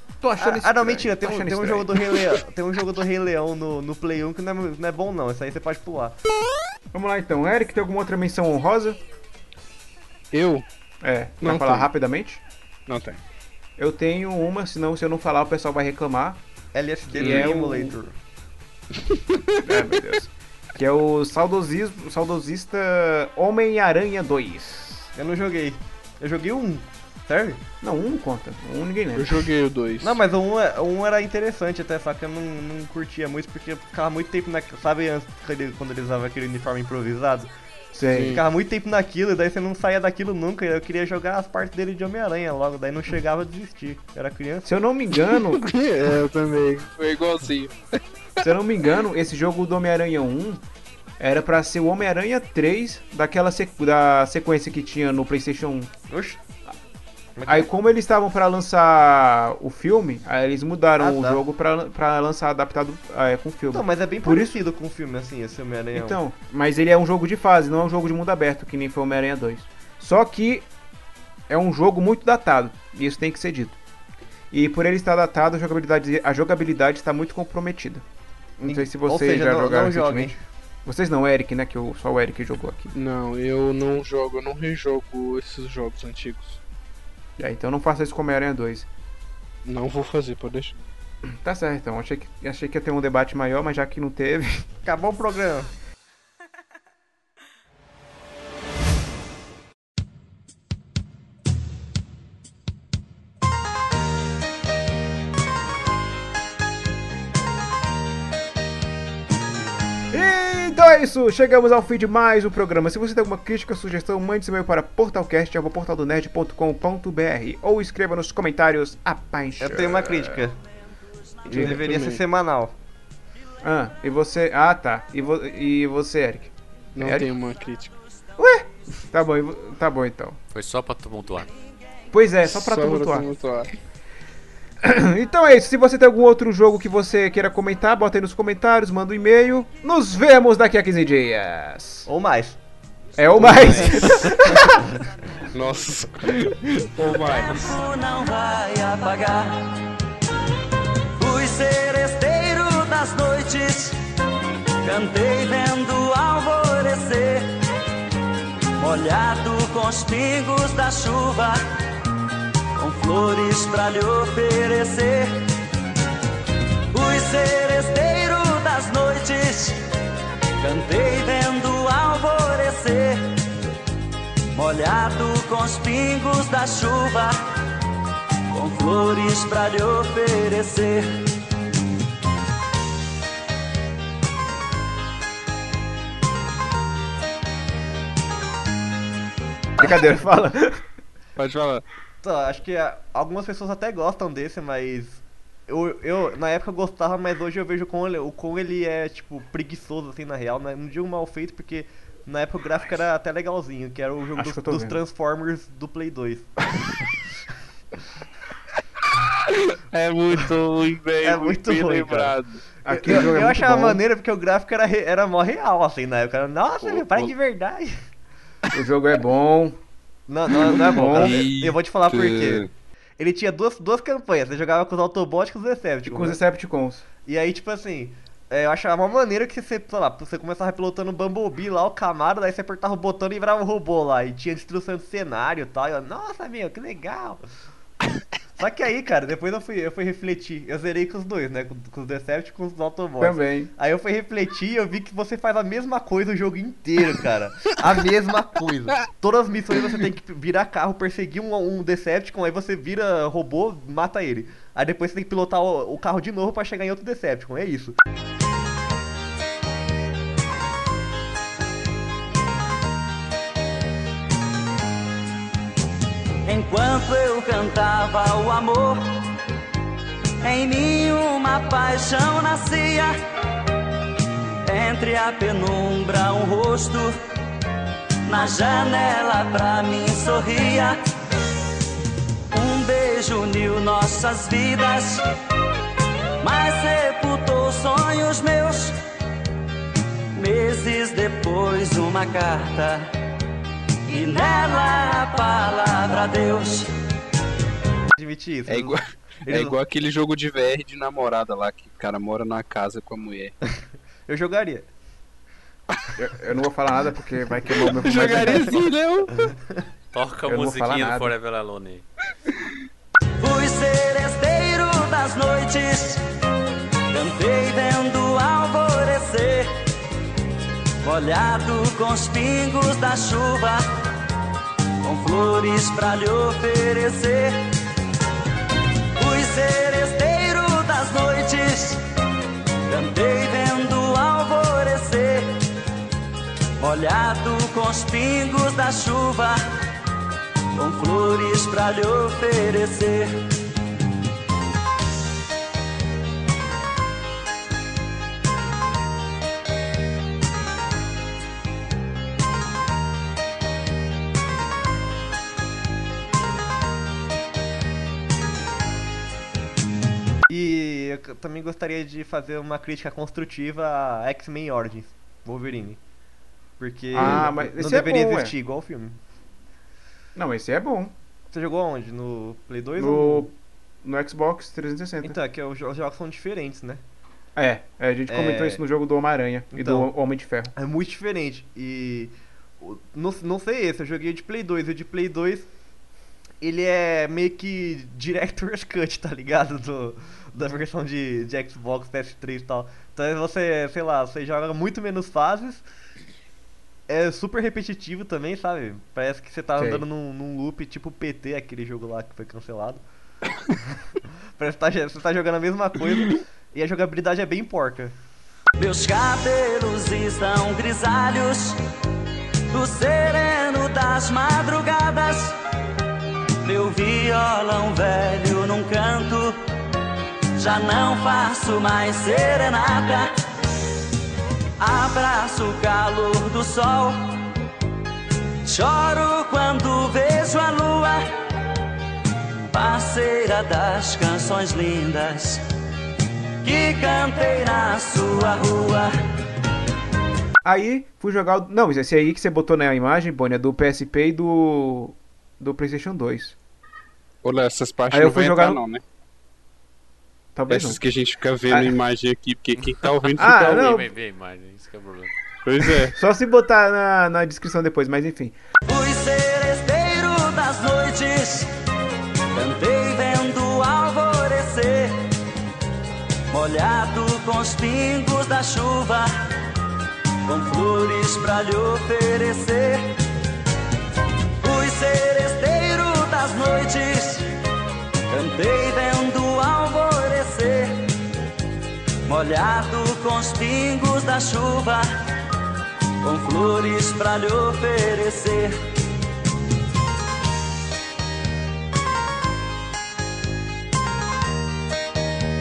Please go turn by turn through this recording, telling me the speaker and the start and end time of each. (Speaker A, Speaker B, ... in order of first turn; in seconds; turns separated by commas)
Speaker A: 0.2-2.4, Speaker B: 0.4-6.2, Speaker A: 6.9-9.0, Speaker C: 10.3-10.7, Speaker A: 11.0-12.4, Speaker C: 11.4-11.9, Speaker C: 12.9-13.2, Speaker A: 13.8-16.4, Speaker B: 16.7-18.1, Speaker A: 17.1-18.0, Speaker C: 17.1-17.5, Speaker C: 19.1-19.4, Speaker A: 19.6-25.1, Speaker B: 25.2-27.6, Speaker A: 27.8-29.4, Speaker C: 29.2-30.2, Speaker B: 30.0-37.5, Speaker A: 37.9-38.4, Speaker C: 38.0-38.4, Speaker B: 38.3-44.7, Speaker A: 44.6-45.6, Speaker C: 45.2-47.8, Speaker A: 48.4-50.6, Speaker A: 51.2-55.9, Speaker B: 56.1-56.4, Speaker B: 57.4-57.7, Speaker A: 57.5-64.6, Speaker B: 61.0-61.4, Speaker B: 63.7-66.2, Speaker A: 66.0-70.7, Speaker A: 71.5-73.8, Speaker A: 74.5-78.0, Speaker A: 78.6-82.9, Speaker B: 78.6-80.4, Speaker C: 82.9-86.6, Speaker A: 87.4-88.9, Speaker C: 89.7-90.8, Speaker A: 91.3-94.7, Speaker B: 94.8-95.7, Speaker A: 110.1-120.4, Speaker B: 119.6-120.6, Speaker B: 121.5-122.8, Speaker C: 121.5-122.2, Speaker A: 121.5-121.8, Speaker A: 123.6-127.3, Speaker C: 127.0-128.0, Speaker A: 128.4-130.4, Speaker D: 130.5-131.5, Speaker A: 132.1-133.3, Speaker C: 132.4-133.8, Speaker A: 134.8-142.1, Speaker B: 142.1-142.6, Speaker A: 143.2-144.9, Speaker C: 143.4-144.8, Speaker C: 145.5-147.8, Speaker E: 147.5-149.7, Speaker E: 151.2-154.0, Speaker E: 154.8-157.5, Speaker E: 158.8-161.6, Speaker E: 162.8-165.4, Speaker E: 166.9-169.8, Speaker E: 170.6-173.4, Speaker E: 174.5-177.4, Speaker E: 178.5-181.2, Speaker A: 189.8-190.8, Speaker C: 191.4-191.8, Speaker B: 192.2-206.5, Speaker A: 204.4-205.0, Speaker C: 209.5-212.6, Speaker B: 211.2-212.4, Speaker A: 212.9-214.0, Speaker B: 212.9-218.0, Speaker C: 216.8-217.3, Speaker A: 218.7-219.8, Speaker B: 220.3-222.7, Speaker C: 220.5-222.7, Speaker A: 220.7-221.5, Speaker B: 223.2-226.4, Speaker A: 226.1-227.0, Speaker B: 227.3-237.4, Speaker B: 238.6-258.0, Speaker A: 243.2-243.7, Speaker E: 266.4-269.2, Speaker E: 270.4-273.2, Speaker E: 274.6-277.2, Speaker E: 278.2-281.0, Speaker E: 282.5-285.2, Speaker E: 286.4-289.0, Speaker E: 290.3-293.1, Speaker E: 294.1-296.9, Speaker B: 298.1-299.8, Speaker C: 298.7-303.6, Speaker B: 304.3-304.9, Speaker A: 306.2-308.8, Speaker C: 307.8-309.5, Speaker D: 310.1-312.1, Speaker A: 310.5-311.3, Speaker E: 313.4-316.2, Speaker E: 317.1-319.7, Speaker E: 321.0-323.8, Speaker E: 325.0-327.7, Speaker E: 329.2-332.0, Speaker E: 332.9-335.6, Speaker E: 336.8-339.6, Speaker E: 340.8-343.4, Speaker B: 360.5-366.0, Speaker B: 366.8-369.2, Speaker A: 367.1-368.5, Speaker C: 367.2-367.5, Speaker A: 370.4-371.1, Speaker B: 371.5-373.5, Speaker A: 373.0-373.5, Speaker A: 374.0-375.4, Speaker B: 375.2-377.0, Speaker A: 377.6-380.7, Speaker B: 378.3-378.8, Speaker B: 379.7-380.1, Speaker B: 380.8-385.7, Speaker B: 386.6-395.9, Speaker B: 397.1-403.0, Speaker A: 399.8-400.0, Speaker B: 404.6-408.1, Speaker E: 408.8-411.8, Speaker E: 412.7-415.6, Speaker E: 416.6-419.6, Speaker E: 420.6-423.3, Speaker E: 424.8-427.4, Speaker E: 428.6-431.3, Speaker E: 432.7-435.6, Speaker E: 436.6-439.1, Speaker A: 440.6-446.6, Speaker C: 447.4-449.0, Speaker A: 448.1-448.8, Speaker A: 450.6-451.0, Speaker C: 450.7-453.9, Speaker A: 451.7-451.9, Speaker D: 452.8-455.3, Speaker A: 453.4-454.1, Speaker C: 455.6-456.1, Speaker A: 456.1-458.5, Speaker E: 458.9-461.7, Speaker E: 462.5-465.3, Speaker E: 466.5-469.3, Speaker E: 470.4-473.2, Speaker E: 474.6-477.5, Speaker E: 478.3-481.1, Speaker E: 482.3-485.1, Speaker E: 486.2-488.8